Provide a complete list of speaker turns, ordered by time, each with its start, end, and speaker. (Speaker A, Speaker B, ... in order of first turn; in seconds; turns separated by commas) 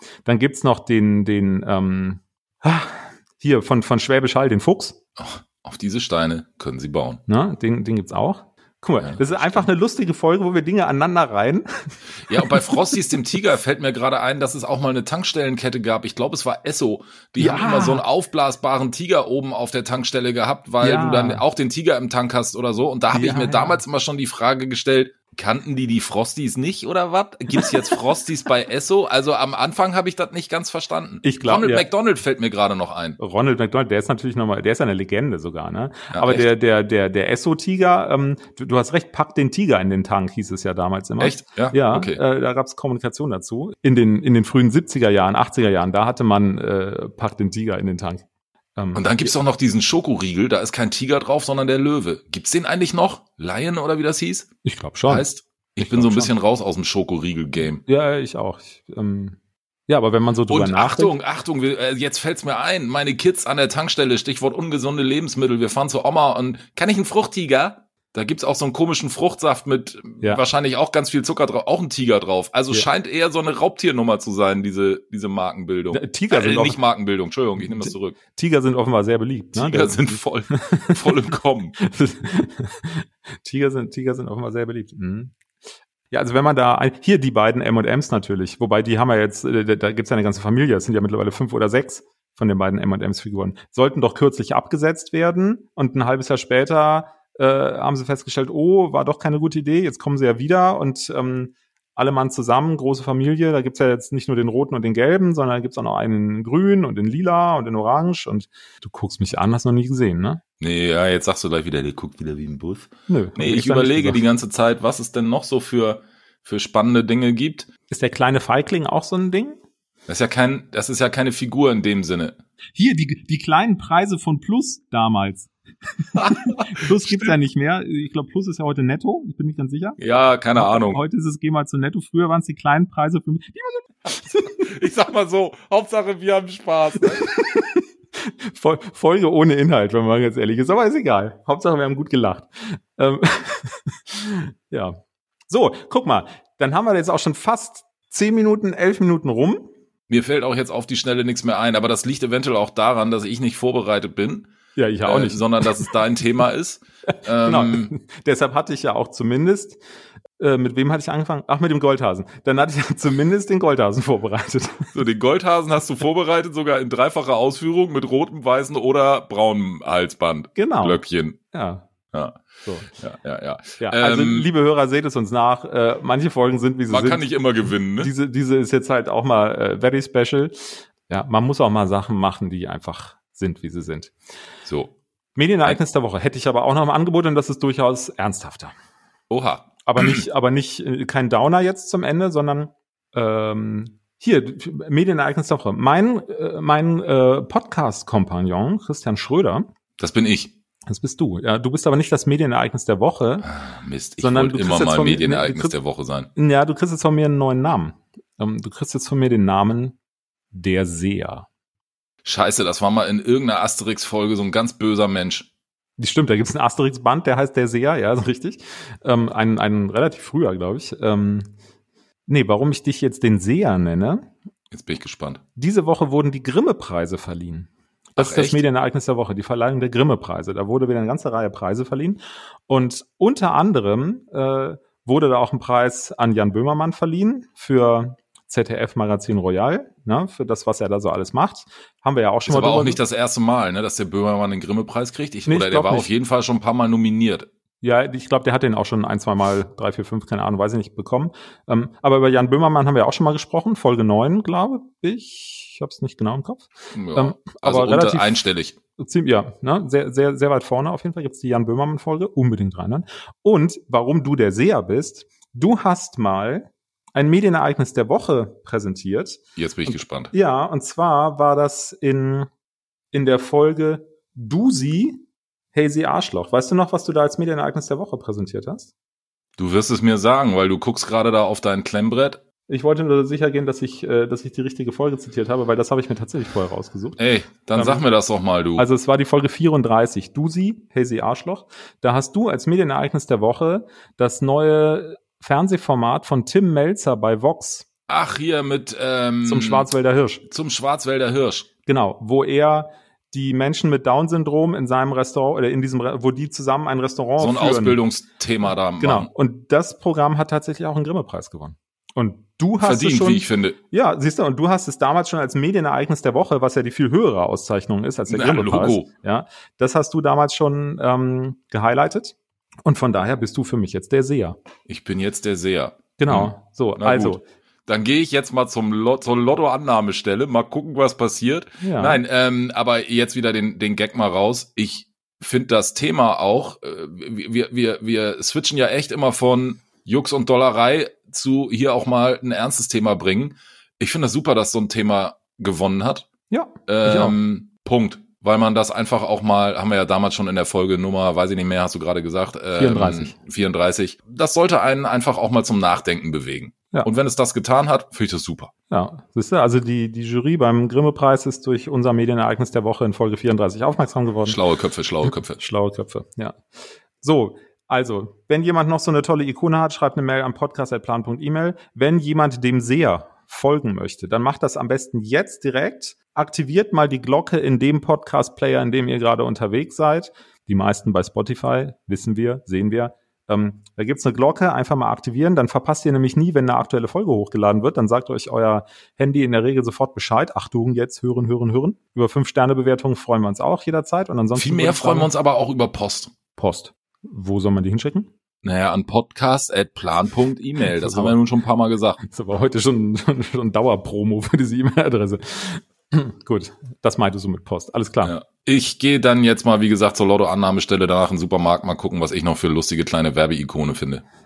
Speaker A: 0.2-5.0, Speaker B: 5.2-7.2, Speaker A: 7.3-11.7, Speaker B: 9.0-9.7, Speaker B: 12.3-33.2, Speaker A: 12.3-12.9, Speaker A: 17.4-18.1, Speaker A: 20.8-21.4, Speaker A: 23.1-23.8, Speaker A: 31.2-31.9, Speaker A: 33.2-48.2, Speaker B: 36.1-36.5, Speaker B: 41.2-42.2, Speaker A: 48.8-49.3, Speaker B: 49.0-54.5, Speaker A: 54.6-55.3, Speaker B: 55.1-57.8, Speaker A: 55.8-56.3, Speaker A: 57.7-59.4, Speaker A: 59.9-61.2, Speaker B: 60.5-78.2, Speaker A: 75.9-76.8, Speaker A: 77.6-81.0, Speaker B: 79.5-81.8, Speaker A: 81.8-85.3, Speaker A: 86.1-110.4, Speaker B: 110.6-117.7, Speaker A: 113.1-114.2, Speaker A: 117.9-119.6, Speaker B: 120.1-122.4, Speaker A: 122.8-130.0, Speaker B: 126.2-127.3, Speaker B: 130.0-131.0, Speaker A: 130.5-134.6, Speaker B: 134.3-137.3, Speaker A: 137.2-145.0, Speaker A: 145.5-149.7, Speaker B: 150.1-154.5, Speaker A: 154.8-155.9, Speaker B: 155.0-157.9, Speaker A: 157.4-159.8, Speaker A: 160.4-164.9, Speaker B: 164.9-171.4, Speaker A: 170.6-171.8, Speaker B: 172.1-172.4, Speaker B: 173.0-174.5, Speaker A: 173.8-184.1, Speaker B: 176.9-178.1, Speaker B: 184.7-184.9, Speaker A: 185.4-188.7, Speaker B: 189.3-190.2, Speaker A: 189.9-199.7, Speaker B: 200.0-200.5, Speaker A: 200.9-203.5, Speaker B: 203.4-206.3, Speaker A: 204.2-205.8, Speaker A: 206.3-210.0, Speaker A: 210.5-211.5, Speaker B: 212.2-215.5, Speaker A: 216.0-221.5, Speaker A: 222.3-224.3, Speaker B: 224.7-225.4, Speaker A: 225.6-243.0, Speaker B: 228.2-228.6, Speaker B: 242.5-247.5, Speaker A: 245.5-246.1, Speaker A: 247.8-258.4, Speaker B: 256.9-258.8, Speaker A: 259.0-272.5, Speaker B: 269.6-270.3, Speaker A: 273.1-275.2, Speaker A: 275.7-278.9, Speaker B: 279.6-282.4, Speaker A: 282.7-287.2, Speaker B: 287.2-288.9, Speaker A: 287.7-288.1, Speaker A: 288.8-297.9, Speaker B: 298.1-299.9, Speaker A: 299.4-300.4, Speaker B: 300.5-301.7, Speaker A: 301.9-308.0, Speaker B: 307.4-309.3, Speaker A: 309.0-324.6, Speaker B: 312.8-313.8, Speaker B: 318.3-319.1, Speaker B: 324.9-346.3, Speaker A: 326.2-327.4, Speaker A: 331.8-332.2, Speaker A: 346.5-347.4, Speaker B: 346.9-358.7, Speaker A: 352.8-353.4, Speaker A: 358.9-364.6, Speaker B: 364.4-365.6, Speaker A: 365.2-366.6, Speaker A: 367.2-395.3, Speaker B: 394.6-396.3, Speaker A: 396.6-398.3, Speaker B: 398.6-402.2, Speaker A: 400.9-401.4, Speaker A: 402.2-408.3, Speaker B: 408.2-414.2